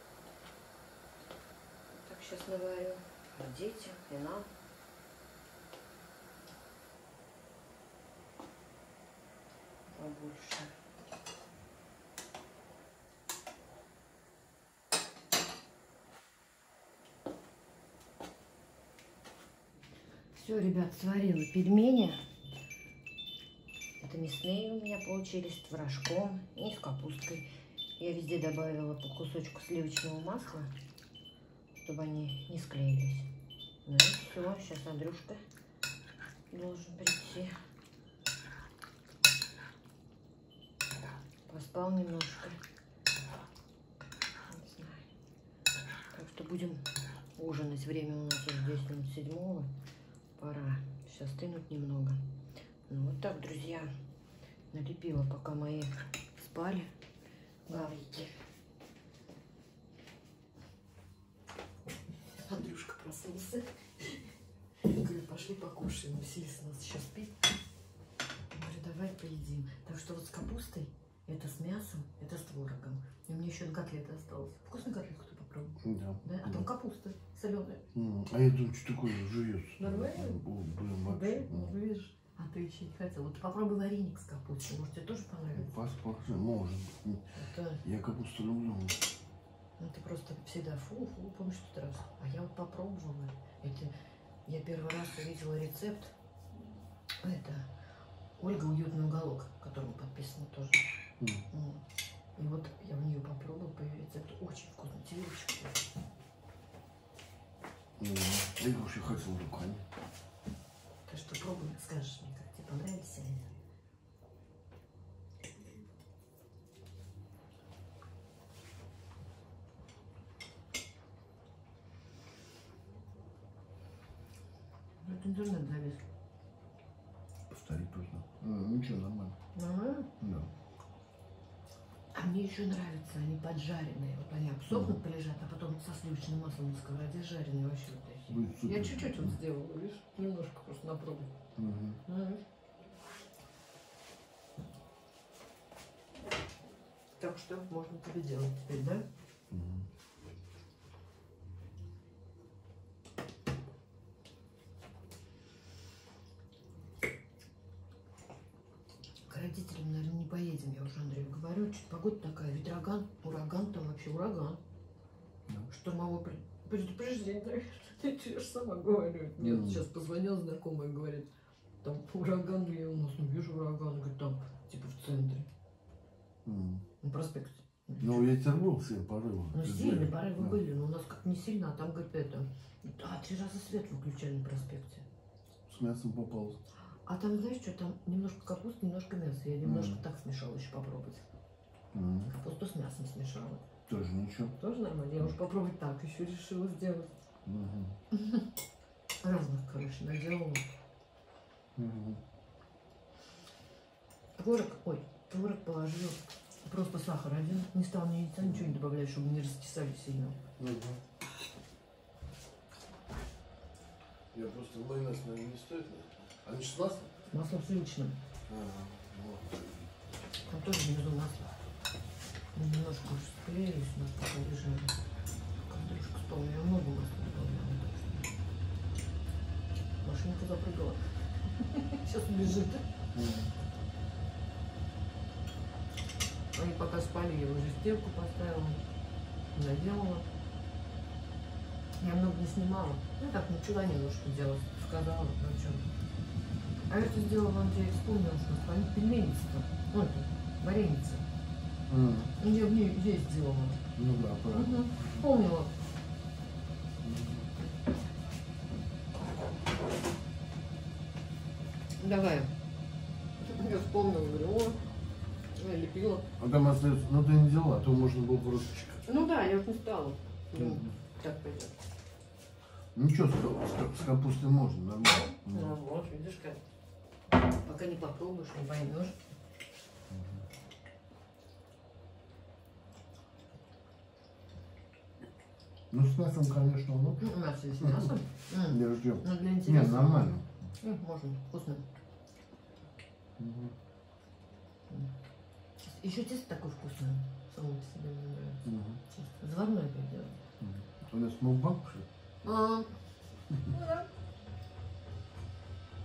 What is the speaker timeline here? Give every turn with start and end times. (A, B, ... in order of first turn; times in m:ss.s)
0:01.9-0:04.5 A
0:10.0-0:10.7 A
0:20.4-0:22.2 A
0:24.0-0:27.5 A
0:28.0-0:30.7 A
0:31.8-0:33.3 A
0:33.8-0:35.4 A
0:36.5-0:37.5 A
0:41.5-0:42.6 A
0:44.5-0:45.0 A
0:46.1-0:46.8 A
0:47.4-0:49.7 A
0:50.4-0:52.2 A
0:52.9-0:53.9 A
0:54.7-0:56.9 A
0:57.7-0:58.3 A
1:02.5-1:04.2 A
1:04.8-1:07.4 A
1:08.5-1:17.8 A
1:15.8-1:16.7 B
1:17.9-1:21.7 B
1:19.8-1:20.4 A
1:21.0-1:25.7 A
1:25.6-1:27.2 B
1:27.3-1:27.8 A
1:27.8-1:29.0 B
1:29.8-1:33.9 A
1:34.5-1:36.1 A
1:37.2-1:37.7 A
1:38.4-1:40.8 A
1:41.5-1:41.8 A
1:42.4-1:45.8 A
1:48.0-1:49.8 B
1:51.1-1:53.5 A
2:05.0-2:06.0 A
2:07.5-2:09.4 B
2:09.6-2:10.1 A
2:10.2-2:10.5 B
2:12.1-2:21.3 A
2:14.7-2:15.0 B
2:18.3-2:19.4 B
2:21.6-2:22.0 B
2:22.1-2:22.4 A
2:27.2-2:29.0 A
2:29.5-2:29.9 B
2:39.3-2:44.6 A
2:45.7-2:51.3 A
2:49.4-2:49.8 B
2:51.8-2:55.5 A
2:56.4-2:56.8 B
2:57.0-2:58.2 A
2:58.0-3:00.6 B
2:59.5-3:05.1 A
3:05.7-3:06.6 B
3:07.1-3:11.2 A
3:09.6-3:10.0 B
3:11.9-3:12.3 B
3:12.3-3:13.6 A
3:13.9-3:14.6 B
3:14.6-3:17.1 A
3:17.4-3:18.0 B
3:18.1-3:18.4 A
3:19.2-3:20.6 A
3:21.8-3:22.2 B
3:24.4-3:30.4 A
3:28.4-3:28.8 B
3:30.6-3:31.0 B
3:34.3-3:37.1 B
3:37.3-3:38.2 A
3:38.5-3:39.9 B
3:40.5-3:41.6 A
3:42.6-3:45.0 A
3:45.6-3:48.3 A
3:50.0-3:51.0 A
3:51.6-3:52.8 A
3:53.1-3:53.5 B
3:56.6-3:58.8 A
3:59.5-4:00.3 A
4:02.0-4:05.8 A
4:06.9-4:11.2 A
4:11.9-4:12.3 B
4:12.4-4:13.8 A
4:14.0-4:15.2 B
4:14.5-4:15.7 A
4:17.0-4:17.5 B
4:22.0-4:22.5 A
4:23.4-4:24.8 A
4:25.6-4:26.3 A
4:26.4-4:29.0 B
4:29.1-4:31.7 A
4:30.6-4:30.9 B
4:33.0-4:35.8 B
4:35.0-4:36.6 A
4:37.6-4:39.2 A
4:40.1-4:40.4 B
4:45.9-4:47.3 B
4:47.2-4:51.8 A
4:47.8-4:48.1 B
4:48.7-4:50.7 B
4:53.4-4:53.8 B
4:55.8-5:00.4 A
4:58.6-4:59.0 B
5:00.6-5:02.1 B
5:02.4-5:02.9 A
5:03.7-5:04.1 A